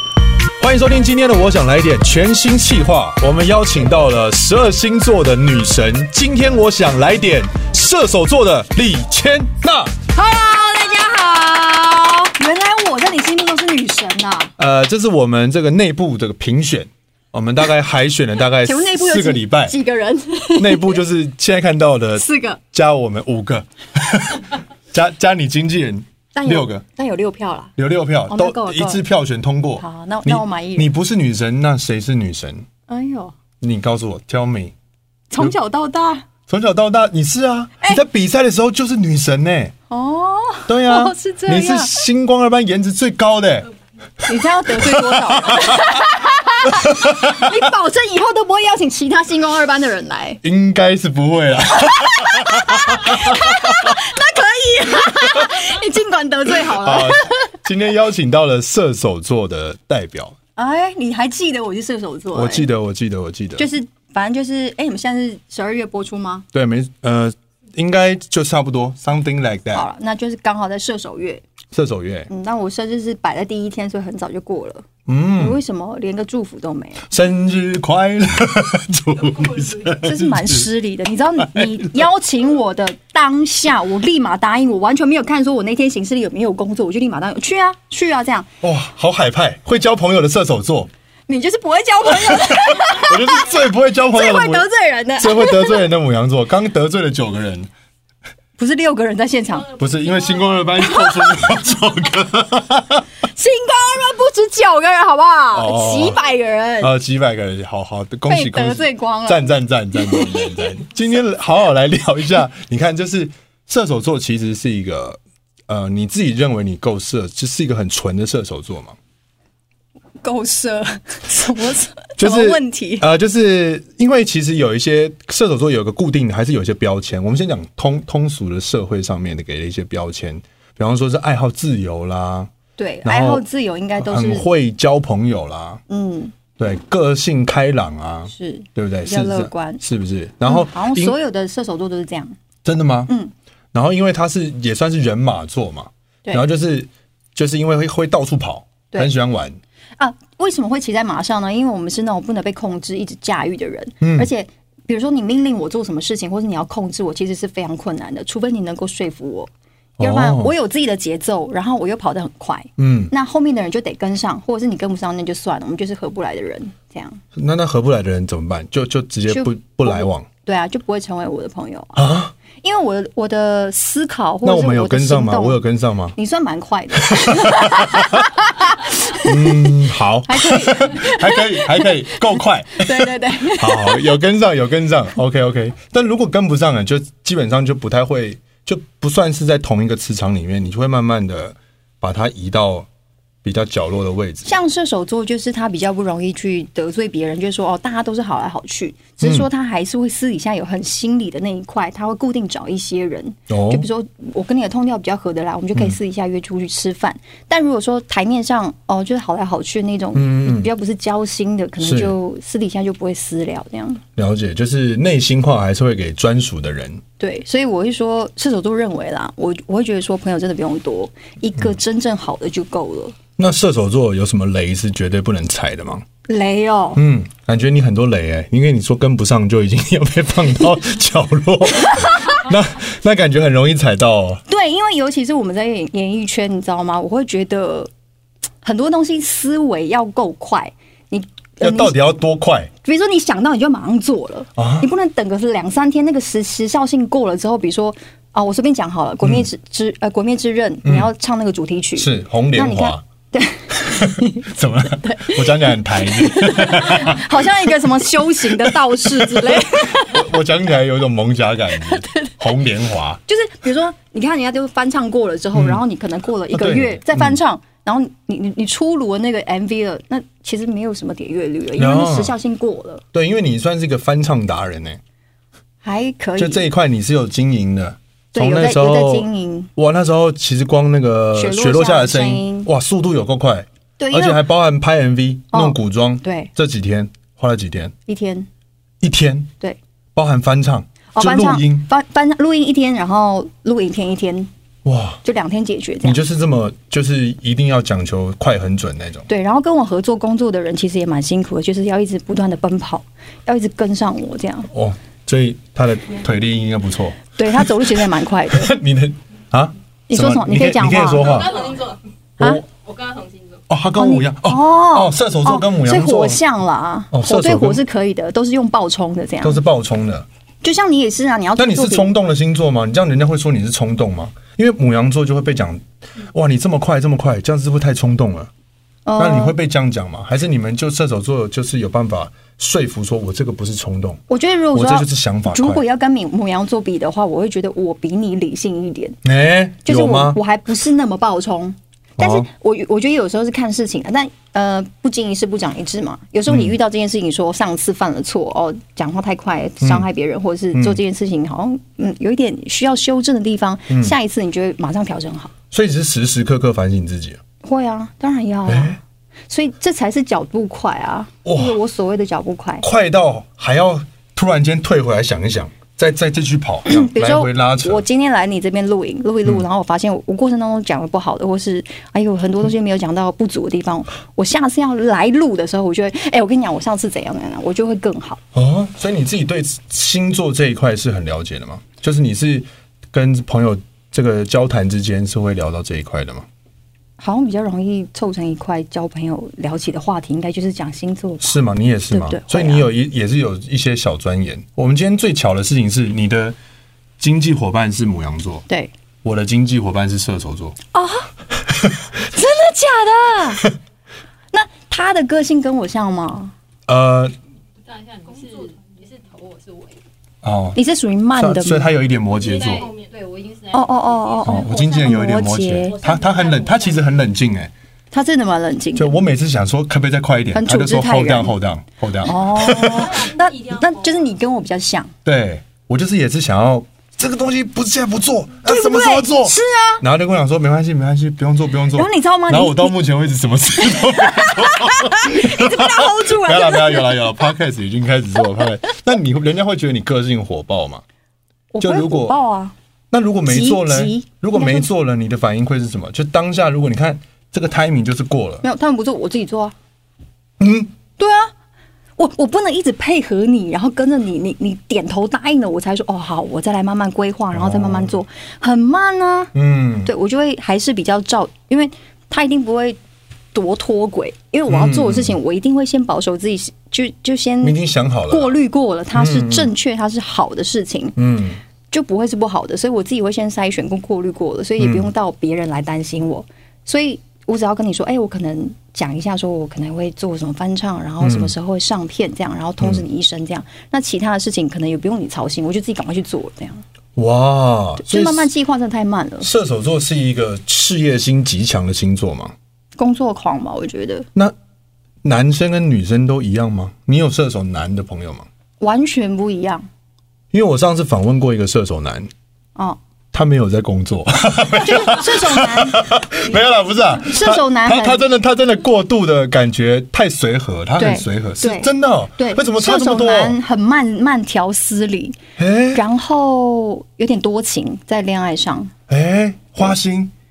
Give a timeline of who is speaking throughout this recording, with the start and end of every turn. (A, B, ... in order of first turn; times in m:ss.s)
0:00.6-0:10.0 A
0:10.1-0:14.5 B
0:14.6-0:19.7 A
0:18.6-0:21.0 B
0:20.6-0:26.8 A
0:22.2-0:22.6 B
0:26.3-0:27.7 B
0:27.8-0:32.6 A
0:28.3-0:29.0 B
0:29.8-0:30.9 B
0:32.9-0:33.4 B
0:33.6-0:34.7 A
0:35.3-0:36.2 B
0:36.5-0:39.7 A
0:39.9-0:41.9 B
0:40.7-0:43.7 A
0:44.2-0:50.4 B
0:44.8-0:46.0 A
0:46.6-0:47.6 A
0:50.4-0:54.0 A
0:51.8-0:57.5 B
0:56.6-1:00.4 A
1:00.6-1:02.7 B
1:02.3-1:03.6 A
1:03.6-1:06.4 B
1:06.5-1:09.8 A
1:09.7-1:11.4 B
1:11.7-1:12.3 A
1:12.3-1:17.1 B
1:15.0-1:15.6 A
1:17.1-1:20.7 A
1:19.3-1:20.0 C
1:20.0-1:28.5 B
1:21.4-1:21.8 A
1:28.6-1:30.9 A
1:31.3-1:35.8 B
1:32.3-1:34.7 A
1:35.2-1:37.7 A
1:38.6-1:39.7 B
1:39.7-1:43.0 A
1:39.8-1:40.5 C
1:40.8-1:41.5 B
1:43.2-1:46.9 B
1:45.5-1:46.2 A
1:46.8-1:59.0 A
1:48.3-1:50.8 B
2:00.2-2:03.1 B
2:02.2-2:12.5 A
2:12.8-2:14.5 B
2:13.0-2:13.4 A
2:14.0-2:15.8 A
2:15.9-2:16.3 B
2:16.6-2:21.2 A
2:18.3-2:19.8 B
2:20.4-2:22.3 B
2:22.6-2:23.1 A
2:23.7-2:29.6 A
2:30.0-2:39.5 B
2:34.0-2:34.3 A
2:40.0-2:40.5 A
2:40.0-2:47.2 B
2:42.8-2:43.1 A
2:47.3-2:50.3 A
2:49.3-2:52.0 B
2:52.0-2:52.3 A
2:52.6-2:55.6 B
2:54.4-2:56.2 A
2:56.2-3:04.1 B
2:57.1-2:58.2 A
2:59.2-3:12.9 A
3:13.4-3:14.5 A
3:14.4-3:34.0 B
3:19.2-3:19.5 A
3:23.5-3:23.9 A
3:30.1-3:30.7 A
3:31.8-3:32.1 A
3:34.2-3:37.0 A
3:37.2-3:43.1 B
3:43.4-3:46.0 A
3:46.3-3:47.0 B
3:46.9-3:54.4 A
3:54.5-3:57.9 B
3:58.6-4:02.0 B
4:01.6-4:02.7 A
4:02.8-4:20.3 B
4:04.6-4:04.9 A
4:10.8-4:11.1 A
4:12.0-4:13.0 A
4:13.7-4:17.9 A
4:18.5-4:23.2 A
4:21.8-4:22.4 B
4:23.3-4:33.0 B
4:25.5-4:25.8 A
4:26.5-4:27.4 A
4:31.8-4:32.4 A
4:33.1-4:35.0 A
4:35.8-4:36.7 B
4:36.4-4:47.9 A
4:38.3-4:39.7 B
4:41.3-4:42.7 B
4:44.0-4:44.4 B
4:45.5-4:46.5 B
4:48.1-4:48.5 B
4:49.0-4:49.5 A
4:50.1-4:51.9 A
4:51.1-4:54.5 B
4:54.8-4:55.2 A
4:55.2-4:56.2 B
4:56.0-4:59.3 A
4:59.3-5:04.7 B
5:04.7-5:11.5 A
5:07.3-5:08.7 B
5:10.1-5:11.6 B
5:11.2-5:12.0 C
5:12.4-5:12.6 A
5:12.6-5:13.6 C
5:13.7-5:16.4 A
5:14.0-5:19.6 B
5:17.1-5:17.8 A
5:19.4-5:20.2 A
5:20.6-5:22.1 B
5:21.6-5:28.5 A
5:29.0-5:29.5 B
5:29.2-5:35.8 A
5:34.3-5:39.2 B
5:39.2-5:40.4 A
5:39.8-5:55.5 B
5:42.2-5:42.5 A
5:46.5-5:46.8 A
5:49.8-5:50.1 A
5:50.7-5:51.0 A
5:53.9-5:54.2 A
5:55.7-5:57.4 A
5:57.6-6:02.8 B
5:58.7-5:59.0 A
6:01.4-6:01.8 A
6:02.8-6:08.0 A
6:06.9-6:18.4 B
6:18.5-6:26.5 A
6:27.2-6:31.6 B
6:31.4-6:36.6 A
6:32.1-6:32.9 B
6:37.2-6:38.6 A
6:39.2-6:40.8 A
6:40.9-6:41.3 B
6:42.1-6:43.7 B
6:44.5-6:46.5 B
6:46.9-6:47.3 A
6:47.8-6:50.0 C
6:50.4-6:50.8 A
6:50.7-6:51.9 B
6:51.3-6:52.9 A
6:52.3-6:55.3 C
6:53.7-6:56.0 B
6:54.4-6:57.7 A
6:55.8-6:57.0 C
6:58.1-6:59.2 B
6:58.9-7:03.2 A
7:00.5-7:01.5 B
7:02.2-7:05.1 B
7:02.7-7:04.3 C
7:05.2-7:21.0 A
7:08.6-7:10.0 B
7:11.9-7:12.9 B
7:14.0-7:17.3 B
7:21.7-7:22.7 B
7:21.8-7:22.4 A
7:23.1-7:28.6 A
7:23.5-7:24.9 B
7:28.6-7:29.7 B
7:30.6-7:30.9 A
7:31.2-7:31.5 B
7:32.2-7:39.5 B
7:37.5-7:38.2 A
7:39.5-7:40.1 A
7:40.0-7:43.0 B
7:43.5-7:47.8 B
7:44.7-7:45.4 A
7:47.6-7:48.6 A
7:48.3-7:51.2 B
7:49.1-7:49.7 A
7:51.2-7:51.6 A
7:51.9-8:06.8 B
7:54.8-7:55.1 A
8:01.2-8:01.5 A
8:07.2-8:08.5 A
8:08.0-8:09.5 B
8:09.4-8:12.5 A
8:13.0-8:14.3 B
8:15.2-8:18.5 A
8:18.8-8:19.8 B
8:20.5-8:22.3 A
8:23.3-8:33.6 A
8:24.7-8:26.2 B
8:27.3-8:28.2 B
8:31.0-8:35.4 B
8:35.6-8:36.0 A
8:35.9-8:38.9 B
8:39.1-8:40.3 A